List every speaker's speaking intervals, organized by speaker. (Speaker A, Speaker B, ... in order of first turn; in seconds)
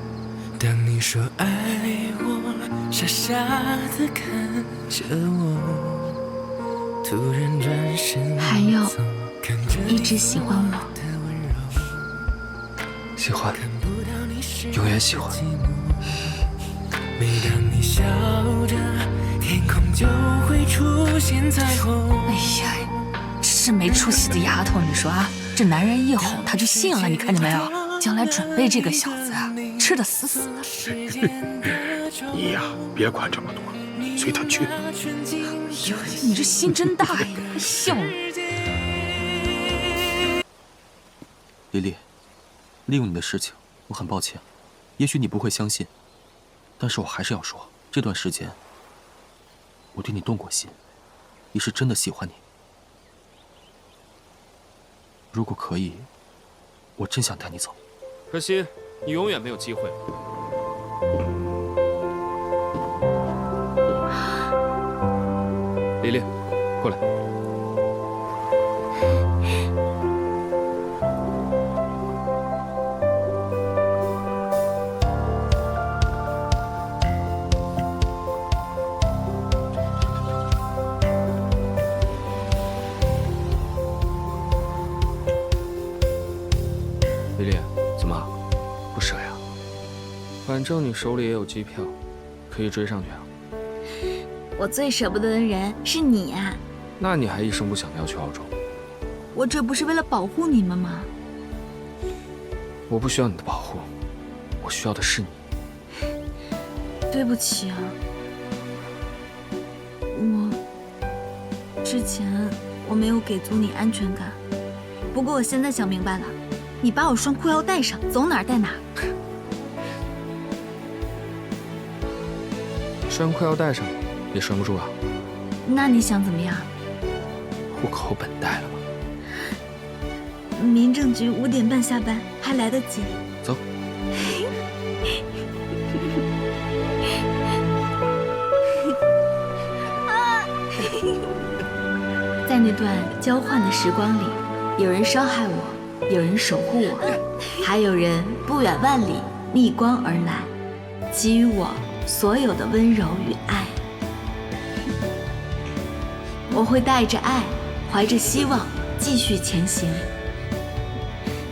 Speaker A: 0.6-6.2, 7.0-8.4, 9.5-9.8, 17.2-22.3, 26.9-28.7, 30.5-32.4, 34.2-36.4
Speaker B: 8.4-9.0, 9.8-10.9, 25.6-26.1, 36.3-37.2, 94.6-96.6, 99.3-101.1, 107.1-108.0, 110.1-110.6, 111.8-114.4, 115.1-118.8, 125.6-126.7, 130.6-133.2, 140.1-141.2, 142.4-150.5, 151.1-153.8, 156.5-160.1
Speaker C: 13.2-13.6, 14.7-15.4, 58.3-60.0, 66.0-66.3, 87.4-88.3, 88.9-89.4, 90.5-92.0, 92.5-93.3, 97.0-98.5, 102.9-103.9, 104.6-105.4, 123.1-125.0, 127.7-128.8
Speaker D: 22.3-22.9, 23.4-30.4, 36.1-38.2
Speaker E: 32.5-34.7
Speaker F: 33.0-33.6, 41.7-42.1, 42.9-44.5, 45.0-45.9, 46.8-48.6, 49.9-50.8, 51.5-52.4, 55.3-56.1, 57.0-57.8